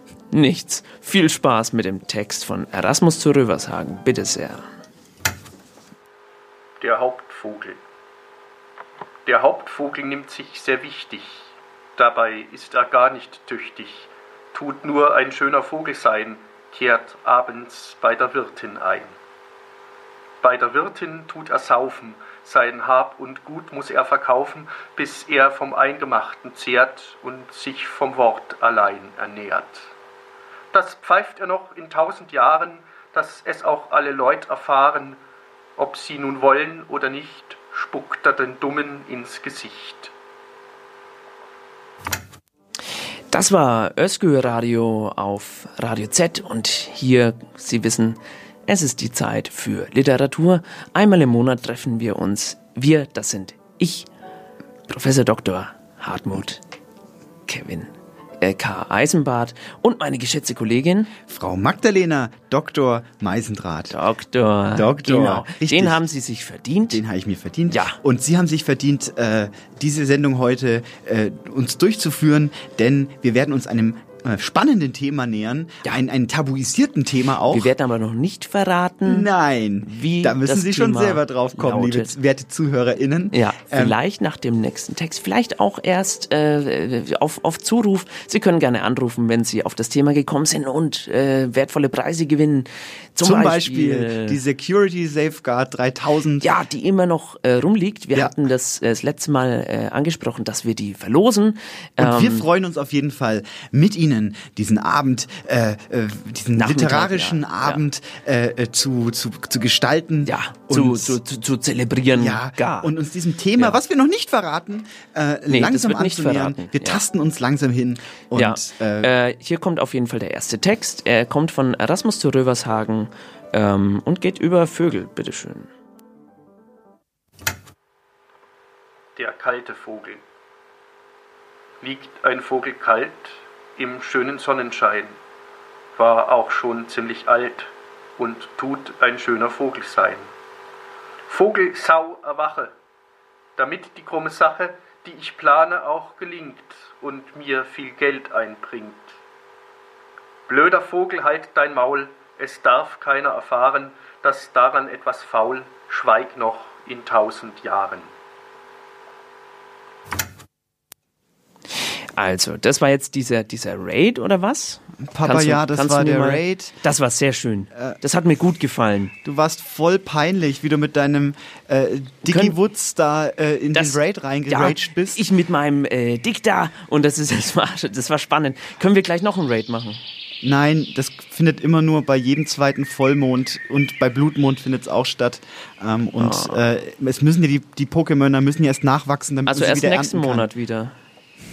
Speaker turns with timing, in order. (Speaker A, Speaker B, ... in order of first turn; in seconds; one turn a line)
Speaker A: 0.3-4.6
Speaker B: 6.8-7.8
Speaker B: 9.2-19.1
Speaker B: 20.4-29.9
Speaker B: 30.7-35.2
Speaker B: 35.8-40.1
Speaker A: 43.3-54.1
Speaker A: 54.9-56.6
Speaker A: 57.5-61.1
Speaker C: 61.3-64.0
Speaker A: 63.9-67.0
Speaker C: 64.7-66.0
Speaker C: 66.9-77.7
Speaker A: 67.7-68.0
Speaker A: 77.5-79.3
Speaker C: 79.0-84.0
Speaker A: 79.8-82.2
Speaker A: 83.3-94.4
Speaker C: 93.2-96.5
Speaker A: 96.4-102.5
Speaker C: 102.0-111.2
Speaker A: 106.5-107.8
Speaker A: 110.2-112.9
Speaker C: 112.1-119.1
Speaker A: 115.5-117.0
Speaker A: 118.3-125.7
Speaker B: 129.2-130.2
Speaker B: 131.8-135.2
Speaker B: 135.9-140.3
Speaker B: 141.3-142.7
Speaker B: 143.6-149.2
Speaker B: 150.5-158.1
Speaker A: 162.2-169.1
Speaker C: 165.0-166.7
Speaker C: 167.7-168.0
Speaker C: 169.2-175.2
Speaker A: 172.2-172.6
Speaker A: 173.7-180.0
Speaker C: 180.4-190.5
Speaker A: 186.2-186.6
Speaker A: 189.4-190.9